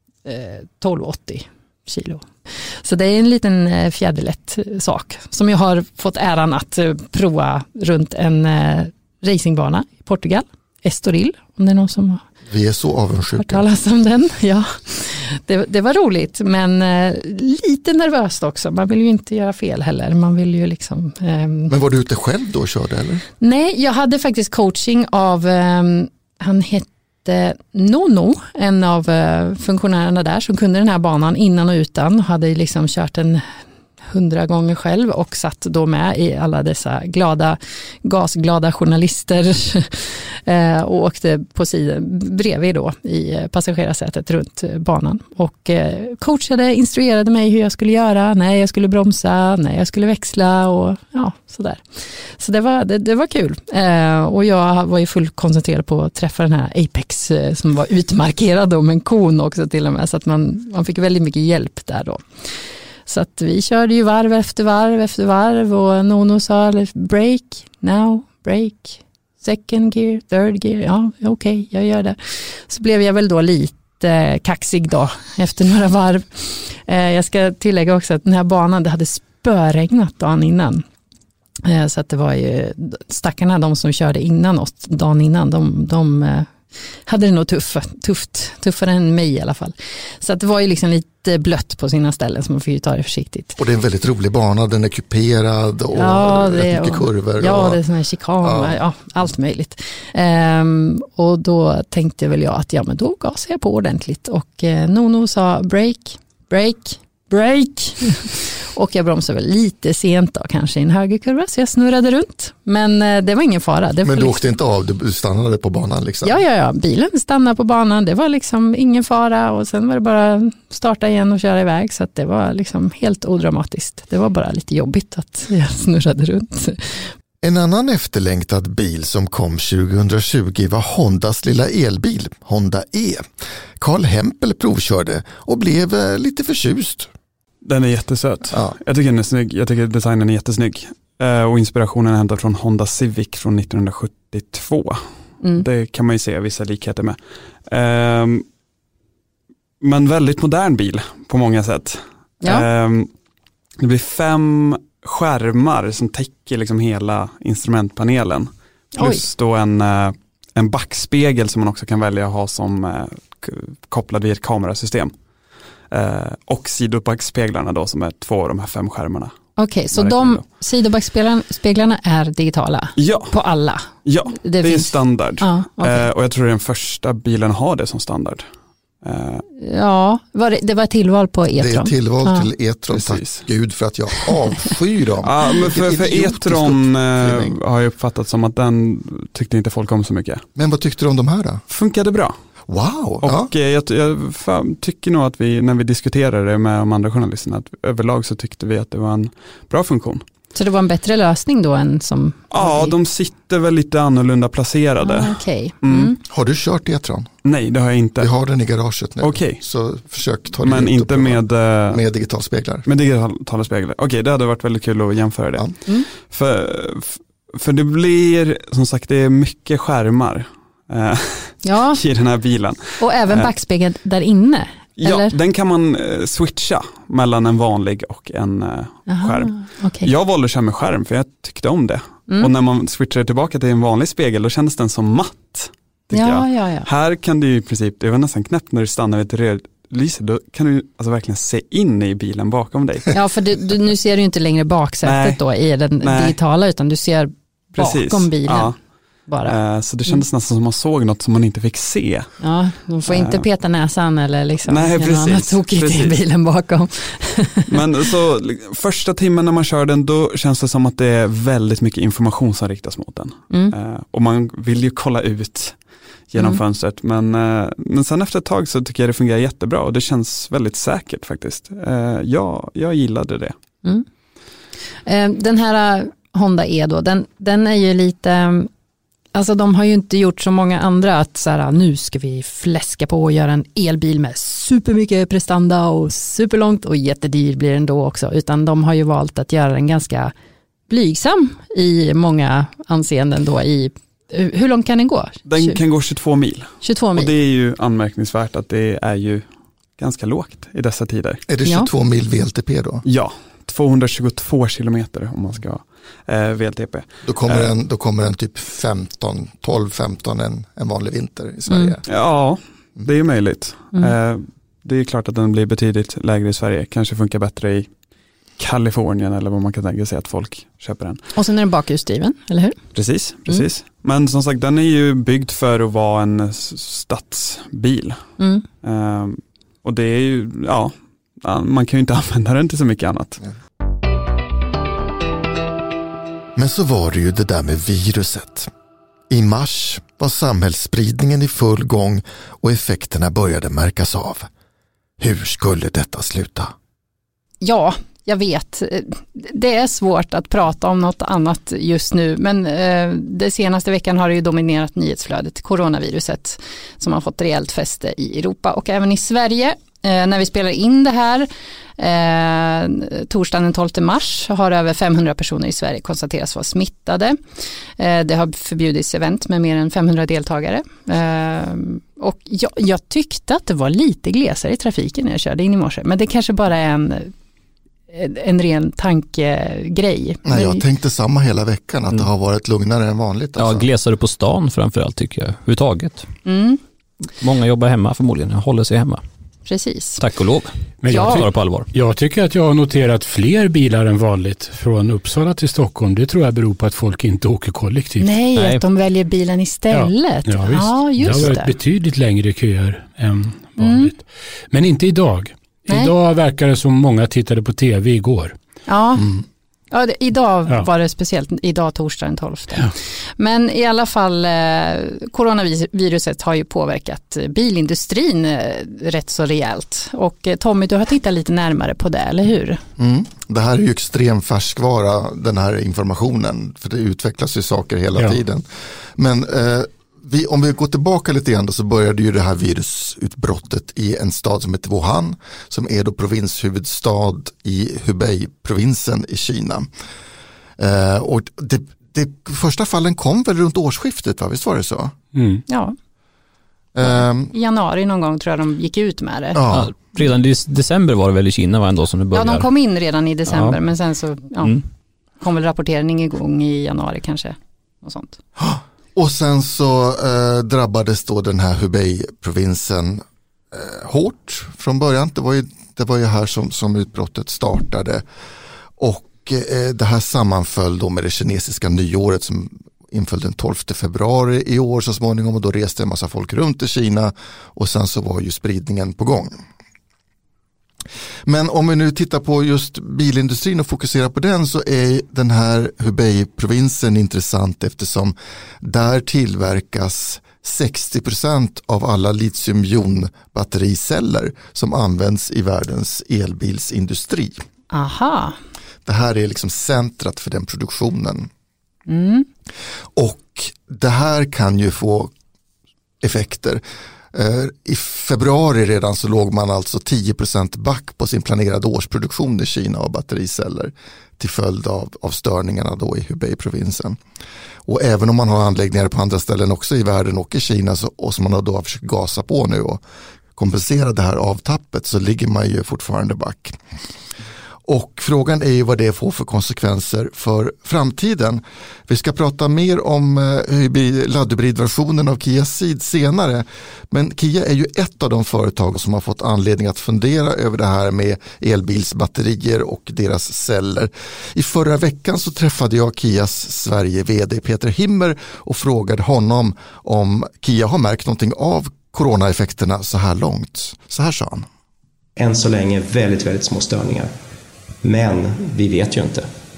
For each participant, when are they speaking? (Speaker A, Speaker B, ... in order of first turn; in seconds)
Speaker A: 0.2-12.2, 13.3-21.7, 23.4-80.8, 81.6-93.5, 96.0-114.4, 116.2-127.1, 159.0-159.2, 169.6-176.1, 179.6-182.5, 200.5-202.9, 205.0-206.2, 221.6-222.0, 223.0-225.3, 229.1-230.1, 236.1-236.9, 243.1-248.7, 249.3-249.6, 252.4-257.7, 275.1-278.7, 279.3-290.3, 290.9-295.8, 296.8-297.3, 311.7-311.9, 321.3-322.8, 328.4-328.6, 347.6-367.4, 368.0-377.3, 378.1-380.8, 386.4-386.8, 389.7-390.2, 391.1-391.4, 398.2-401.7, 403.8-404.1, 408.9-409.2, 409.9-422.8, 445.7-445.9, 447.0-449.6, 452.3-454.8, 455.4-458.4, 497.9-498.6, 502.1-502.5
Speaker B: 12.4-13.7, 21.7-23.2, 93.5-97.8, 98.4-98.8, 114.0-116.4, 127.4-133.3, 133.8-137.1, 181.6-187.6, 190.6-191.6, 192.7-193.4, 206.3-207.3, 208.2-212.8, 301.5-303.0, 307.2-312.0, 336.6-338.7, 339.3-344.5, 345.2-346.7, 380.4-383.9, 423.0-428.6, 429.2-439.9, 440.8-445.1, 446.9-447.5, 449.5-449.9, 458.6-468.2, 469.0-479.6, 481.4-497.6, 499.0-501.5, 503.1-505.3, 506.2-506.8, 507.3-517.2, 517.9-523.0, 523.5-526.8, 527.9-554.6
Speaker C: 137.6-148.4, 149.8-153.1, 153.8-165.1, 165.9-170.4, 172.9-173.3, 174.0-178.5, 179.0-179.4, 182.9-183.4, 185.2-190.4, 191.7-192.3, 193.2-200.2, 202.5-206.1, 207.4-208.3, 209.2-209.6, 210.6-212.0, 212.8-223.5, 225.0-243.2, 245.0-245.4, 246.0-246.4, 247.8-248.8, 249.4-252.3, 253.0-253.4, 254.7-256.2, 257.7-273.5, 295.5-299.5, 300.0-301.4, 303.1-307.7, 312.1-317.9, 318.6-321.2, 322.9-328.3, 328.8-333.4
Speaker D: 383.6-386.3, 387.4-389.2, 390.2-391.9, 398.6-398.8, 449.7-452.7, 453.5-453.8
Speaker E: 391.0-398.4, 399.9-408.6, 445.3-445.6
Speaker F: 555.4-557.3, 558.0-559.5